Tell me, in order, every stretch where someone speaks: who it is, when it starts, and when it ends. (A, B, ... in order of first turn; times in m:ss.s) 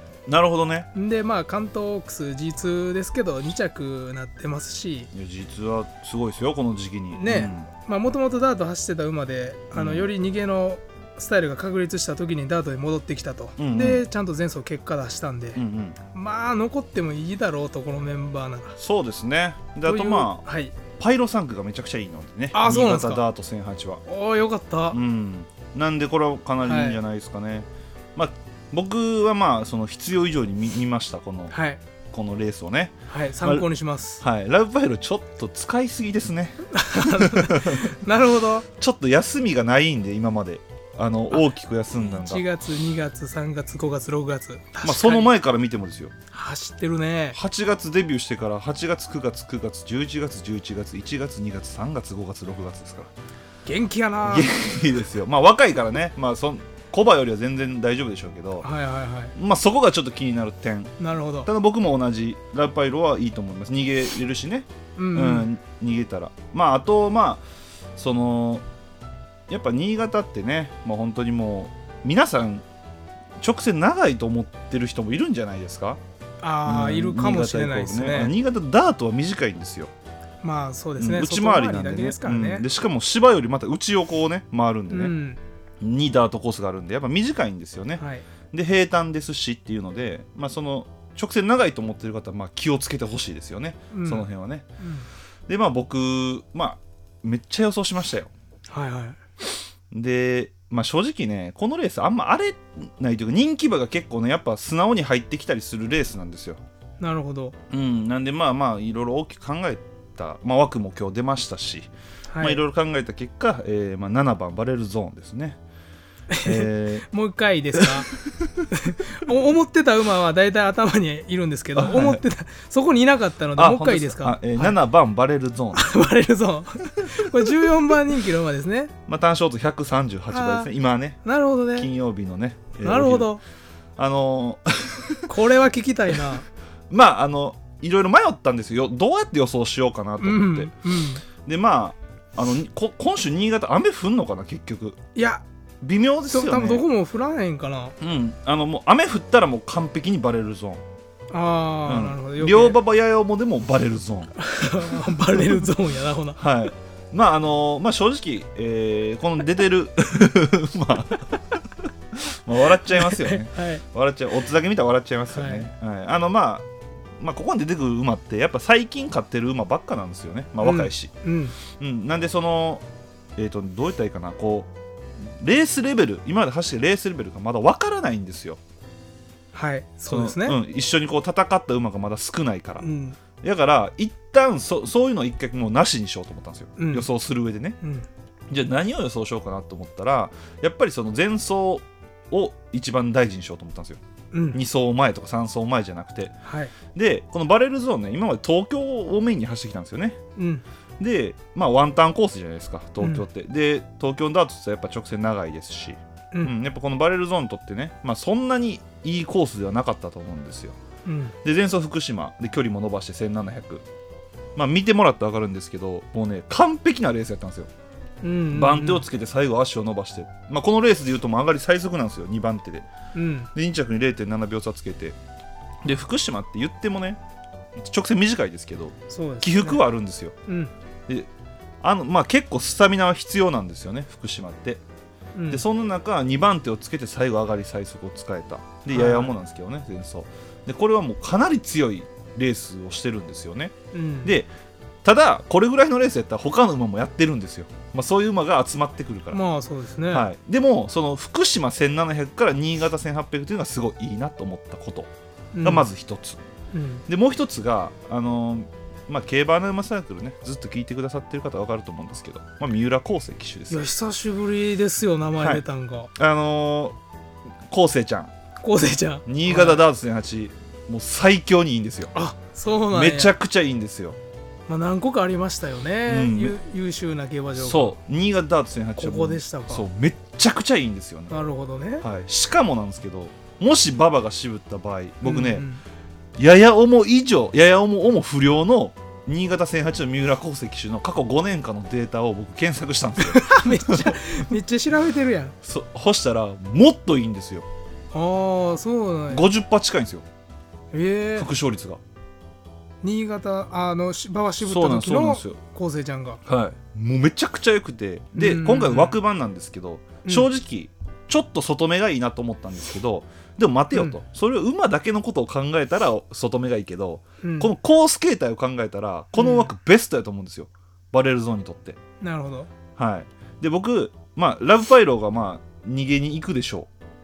0:00.3-0:00.9 A
0:00.9-0:05.1 B
0:05.1-0:07.7 A
0:07.1-0:18.8 B
0:09.7-0:10.1 A
0:13.6-0:14.0 A
0:15.5-0:16.0 A
0:18.8-0:20.4 A
0:19.8-0:20.7 B
0:20.9-0:24.0 A
0:22.5-0:23.2 B
0:24.0-0:25.0 B
0:24.9-0:31.5 A
0:26.6-0:27.0 B
0:31.5-0:31.8 B
0:32.1-0:33.7 A
0:33.1-0:34.2 B
0:34.2-0:37.9 A
0:36.7-0:38.7 B
0:38.8-0:42.4 A
0:41.3-0:45.3 B
0:44.8-0:46.1 A
0:46.3-0:47.4 B
0:47.3-0:53.1 A
0:53.6-0:54.5 B
0:54.2-0:58.7 A
0:58.6-0:59.3 B
0:59.3-1:00.9 A
1:01.0-1:01.5 B
1:01.4-1:07.4 A
1:05.0-1:05.5 B
1:08.0-1:08.6 A
1:09.5-1:12.6 A
1:13.4-1:16.0 A
1:16.4-1:18.3 B
1:16.6-1:19.9 A
1:20.4-1:22.6 B
1:21.0-1:25.1 A
1:24.9-1:25.4 B
1:25.8-1:34.6 A
1:28.0-1:28.2 B
1:33.9-1:34.3 B
1:34.8-1:35.1 B
1:35.5-1:38.3 A
1:38.7-1:39.2 B
1:39.9-1:46.6 A
1:47.0-1:47.5 B
1:47.7-1:55.6 A
1:52.3-1:52.6 B
1:56.3-1:58.1 B
1:56.4-1:57.0 A
1:57.8-1:58.6 A
1:58.7-2:04.7 B
2:01.7-2:02.2 A
2:03.6-2:05.8 A
2:05.7-2:08.9 B
2:09.1-2:11.2 A
2:10.3-2:10.7 B
2:11.2-2:11.9 B
2:11.8-2:13.3 A
2:12.8-2:13.4 B
2:14.0-2:15.2 A
2:15.3-2:16.5 B
2:16.9-2:20.7 A
2:20.2-2:21.2 B
2:21.4-2:25.0 A
2:25.1-2:25.4 B
2:25.8-2:26.8 A
2:26.3-2:28.0 B
2:28.0-2:30.8 A
2:31.3-2:32.8 B
2:31.9-2:34.3 A
2:34.4-2:36.4 B
2:35.3-2:35.6 A
2:36.4-2:41.6 A
2:42.1-2:46.7 A
2:42.9-2:43.8 B
2:45.3-2:45.7 B
2:47.2-2:51.1 A
2:50.6-2:51.6 B
2:51.7-2:52.8 A
2:53.4-2:58.6 A
2:59.5-3:00.6 B
3:00.1-3:02.8 A
3:02.8-3:03.2 B
3:03.4-3:07.8 A
3:06.8-3:07.1 B
3:08.5-3:14.0 A
3:14.3-3:14.6 B
3:14.5-3:16.3 A
3:16.4-3:16.7 B
3:16.9-3:20.2 A
3:20.4-3:20.6 B
3:21.0-3:30.8 A
3:31.0-3:31.3 B
3:31.4-3:33.8 A
3:34.6-3:37.7 A
3:38.2-3:39.0 B
3:38.5-3:42.9 A
3:43.1-3:43.5 B
3:43.5-3:45.2 A
3:45.8-3:47.2 A
3:47.8-3:50.3 A
3:49.1-3:49.8 B
3:50.5-3:50.7 B
3:51.8-3:54.8 A
3:55.4-3:55.6 B
3:55.5-4:04.5 A
3:58.9-3:59.3 B
4:03.9-4:04.3 B
4:05.0-4:09.4 A
4:09.3-4:10.3 B
4:10.1-4:15.1 A
4:15.5-4:15.9 B
4:15.6-4:16.4 A
4:16.7-4:17.0 B
4:17.0-4:23.8 A
4:23.7-4:26.1 B
4:25.4-4:27.0 A
4:27.7-4:28.3 A
4:28.6-4:29.8 B
4:29.2-4:32.1 A
4:32.1-4:33.3 B
4:32.9-4:34.2 A
4:34.7-4:37.9 B
4:36.1-4:36.5 A
4:37.6-4:41.3 A
4:39.0-4:39.8 B
4:41.3-4:42.0 B
4:42.0-4:45.6 A
4:45.2-4:45.8 B
4:46.4-4:54.2 A
4:53.2-4:55.5 B
4:55.6-4:57.6 A
4:58.1-4:59.4 B
4:59.3-5:00.2 A
5:00.9-5:01.5 B
5:01.4-5:02.0 A
5:03.0-5:06.4 B
5:04.6-5:05.6 A
5:06.4-5:22.0 A
5:08.3-5:09.2 B
5:13.9-5:14.2 B
5:17.4-5:17.7 B
5:19.4-5:19.7 B
5:22.2-5:22.7 B
5:23.0-5:26.9 A